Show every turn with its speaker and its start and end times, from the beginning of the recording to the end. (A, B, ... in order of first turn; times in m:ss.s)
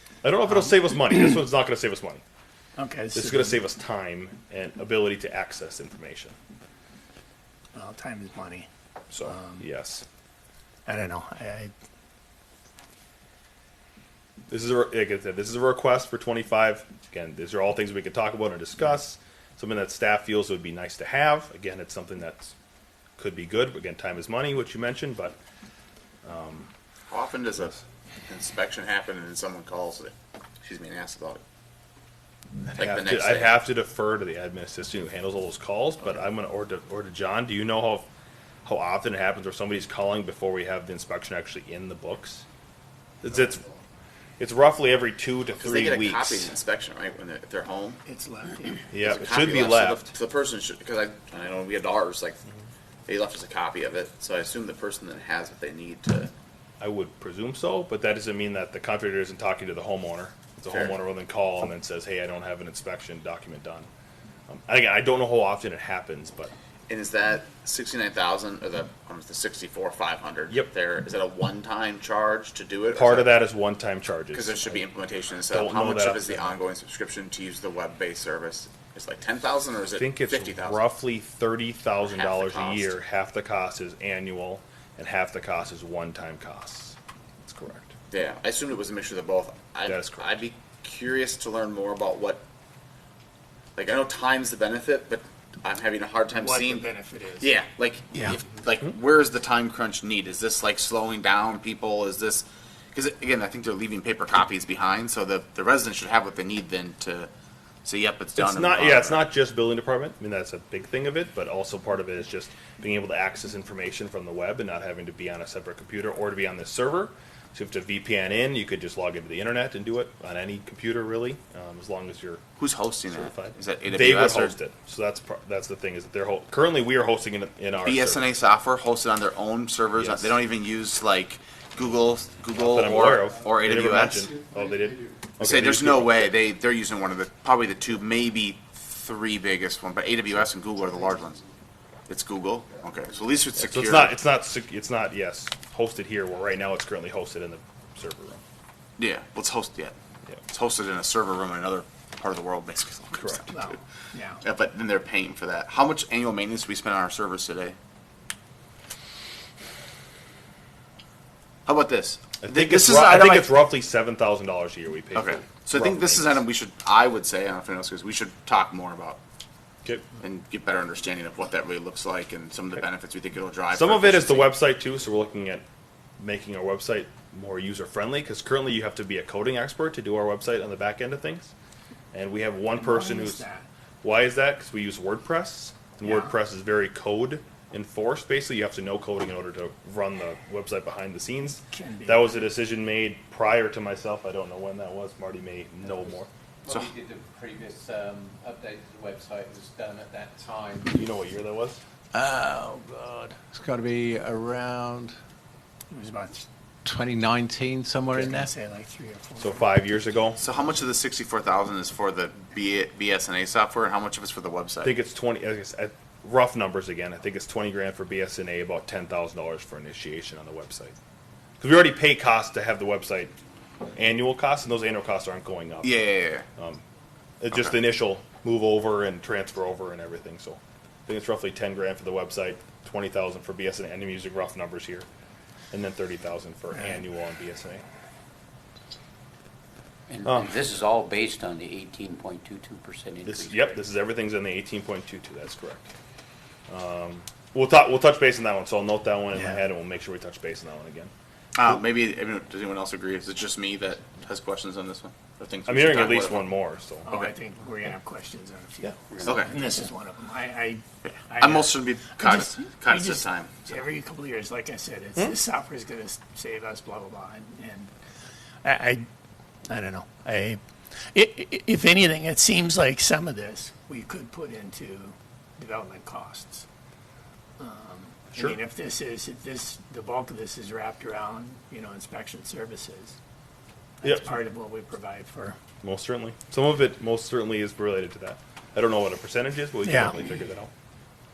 0:00.2-0:02.2 A
0:02.8-0:03.6 B
0:03.2-0:06.4 A
0:07.8-0:08.7 B
0:09.1-0:10.0 A
0:09.2-0:09.6 B
0:10.9-0:11.7 B
0:14.5-0:22.6 A
0:23.2-0:25.4 A
0:26.2-0:26.7 A
0:27.1-0:31.4 C
0:32.6-0:33.5 C
0:32.8-0:38.1 A
0:38.7-0:42.4 A
0:43.2-0:43.6 A
0:44.4-0:46.5 A
0:45.6-0:48.0 C
0:48.1-0:49.0 B
0:48.9-0:50.1 A
0:49.0-0:52.4 C
0:53.1-0:56.3 C
0:56.8-1:03.9 A
1:00.7-1:01.0 C
1:04.5-1:06.5 A
1:06.9-1:13.3 C
1:13.0-1:14.8 A
1:14.3-1:20.8 C
1:15.5-1:16.6 A
1:20.0-1:27.9 A
1:22.0-1:22.9 C
1:28.1-1:32.4 C
1:29.9-1:30.3 A
1:33.8-1:36.9 C
1:36.3-1:37.6 B
1:37.4-1:47.3 C
1:47.8-1:49.2 C
1:48.4-2:02.4 A
2:02.6-2:04.6 C
2:03.1-2:08.2 A
2:07.8-2:14.4 C
2:10.0-2:10.3 A
2:12.6-2:16.3 A
2:15.4-2:21.4 C
2:22.1-2:24.1 C
2:23.6-2:28.4 A
2:29.0-2:30.0 C
2:30.5-2:33.7 C
2:33.1-2:33.5 A
2:33.5-2:34.4 B
2:34.4-2:37.8 C
2:41.7-2:43.6 C
2:42.4-2:46.4 A
2:45.2-2:49.2 C
2:50.2-2:54.5 C
2:53.7-2:55.6 A
2:56.2-3:01.5 A
3:02.1-3:03.4 A
3:02.8-3:03.7 B
3:04.0-3:16.3 A
3:06.0-3:06.3 B
3:11.7-3:12.5 B
3:16.6-3:21.0 D
3:20.9-3:21.8 A
3:22.1-3:25.1 D
3:25.9-3:26.5 B
3:26.8-3:28.5 D
3:28.1-3:29.7 B
3:29.4-3:30.4 A
3:30.4-3:34.9 C
3:34.8-3:40.9 A
3:41.6-3:43.3 A
3:44.0-3:46.0 A
3:45.8-3:46.5 C
3:46.6-3:46.8 A
3:47.4-3:55.1 A
3:55.7-3:57.8 A
4:00.1-4:03.7 E
4:00.2-4:00.6 A
4:03.3-4:05.9 A
4:06.7-4:11.1 A
4:11.6-4:16.5 C
4:15.7-4:17.1 A
4:17.1-4:27.9 B
4:19.2-4:19.4 E
4:19.2-4:19.6 C
4:21.0-4:23.7 C
4:28.6-4:29.1 B
4:29.7-4:30.6 B
4:31.1-4:36.7 B
4:37.6-4:43.2 B
4:44.0-4:45.6 B
4:44.0-4:44.4 A
4:45.8-4:50.7 A
4:49.8-4:50.2 B